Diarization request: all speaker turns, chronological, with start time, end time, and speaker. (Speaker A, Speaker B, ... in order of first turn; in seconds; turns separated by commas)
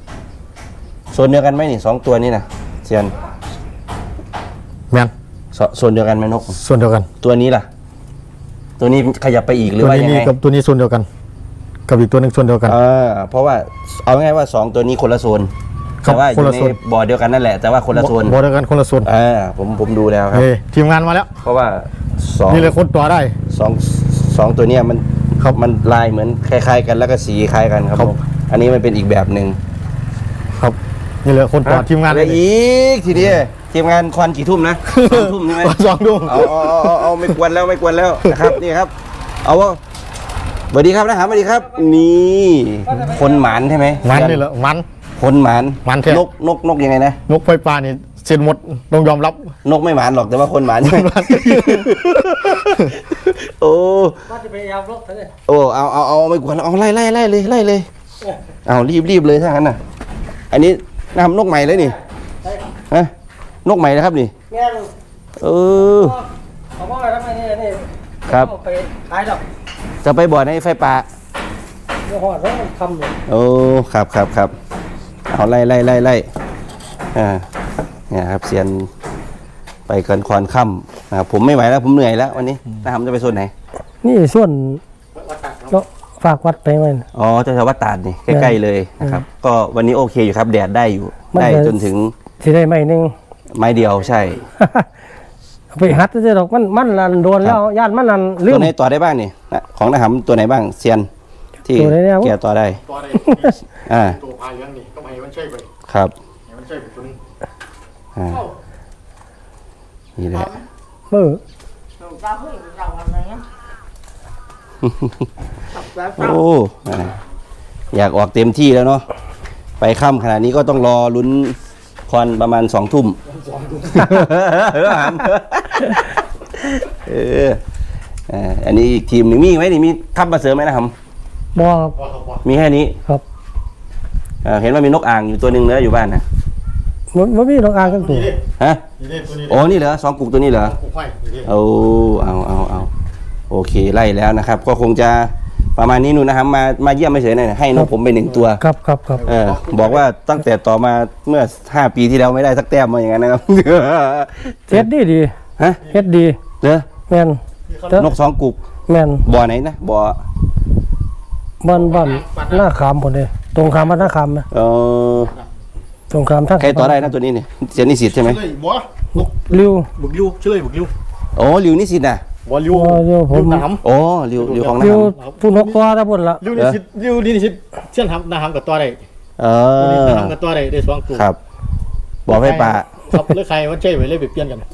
Speaker A: 1.1-3.1, Speaker A: 5.5-6.6, Speaker B: 6.5-7.1, Speaker A: 7.2-7.7, Speaker A: 8.8-10.3, Speaker B: 9.8-11.1, Speaker B: 11.9-12.8, Speaker A: 12.7-15.5, Speaker B: 16.0-16.8, Speaker A: 16.0-18.4, Speaker B: 17.9-19.1, Speaker A: 19.0-20.5, Speaker B: 20.3-21.3, Speaker A: 21.4-22.7, Speaker B: 22.5-23.4, Speaker A: 23.5-29.6, Speaker B: 30.6-32.4, Speaker A: 31.6-38.9, Speaker B: 34.9-37.4, Speaker B: 38.3-38.6, Speaker A: 39.4-39.8, Speaker A: 40.7-44.4, Speaker C: 42.9-43.3, Speaker B: 44.0-44.9, Speaker A: 45.2-47.2, Speaker B: 45.8-46.2, Speaker B: 47.3-49.5, Speaker A: 49.6-54.2, Speaker B: 50.8-52.9, Speaker C: 54.3-55.3, Speaker A: 55.5-57.9, Speaker A: 58.6-59.8, Speaker A: 60.5-62.0, Speaker A: 63.6-64.3, Speaker C: 64.5-64.9, Speaker A: 65.4-66.2, Speaker C: 65.8-66.2, Speaker C: 66.8-69.4, Speaker A: 68.3-68.5, Speaker A: 70.0-71.1, Speaker C: 72.1-73.2, Speaker A: 73.3-74.5, Speaker A: 75.3-76.3, Speaker A: 77.1-77.5, Speaker A: 78.1-78.9, Speaker A: 79.9-83.5, Speaker C: 84.0-84.8, Speaker B: 85.3-85.7, Speaker C: 85.7-87.0, Speaker A: 87.1-92.2, Speaker C: 88.3-88.5, Speaker C: 91.3-91.8, Speaker C: 92.4-93.1, Speaker A: 93.5-94.4, Speaker C: 94.6-94.8, Speaker C: 95.7-98.7, Speaker A: 98.5-101.1, Speaker A: 101.6-102.8, Speaker C: 101.7-102.3, Speaker B: 102.8-105.7, Speaker A: 103.8-104.2, Speaker A: 105.9-106.1, Speaker B: 106.5-107.2, Speaker A: 108.2-108.5, Speaker A: 110.2-110.6, Speaker C: 111.1-111.4, Speaker A: 114.8-115.3, Speaker A: 115.9-117.2, Speaker A: 117.9-119.1, Speaker A: 119.8-123.2, Speaker B: 123.5-123.8, Speaker A: 123.8-127.6, Speaker A: 128.3-130.9, Speaker C: 131.5-131.9, Speaker B: 131.9-132.4, Speaker A: 132.4-133.0, Speaker A: 134.4-136.2, Speaker C: 137.1-138.3, Speaker B: 137.8-138.4, Speaker A: 138.6-138.8, Speaker B: 139.0-139.7, Speaker A: 139.4-140.8, Speaker B: 140.6-141.5, Speaker A: 141.4-142.9, Speaker A: 143.5-148.6, Speaker C: 148.6-149.2, Speaker B: 149.1-150.0, Speaker A: 149.3-154.9, Speaker C: 154.7-155.3, Speaker A: 155.6-155.9, Speaker C: 155.9-156.4, Speaker A: 156.6-156.9, Speaker C: 157.1-158.1, Speaker B: 157.7-158.0, Speaker A: 157.9-158.6, Speaker C: 158.9-159.2, Speaker A: 159.2-160.2, Speaker C: 161.6-164.4, Speaker B: 161.7-162.6, Speaker A: 164.5-165.4, Speaker C: 166.1-167.1, Speaker A: 166.6-168.4, Speaker B: 168.1-170.9, Speaker C: 169.2-169.9, Speaker A: 171.3-172.2, Speaker B: 172.4-173.8, Speaker C: 172.7-173.7, Speaker A: 173.8-175.1, Speaker B: 174.4-175.8, Speaker C: 174.8-176.4, Speaker B: 176.4-179.0, Speaker A: 176.5-176.8, Speaker A: 179.4-180.3, Speaker B: 179.8-181.3, Speaker A: 181.1-181.4, Speaker A: 182.3-183.2, Speaker B: 182.3-184.6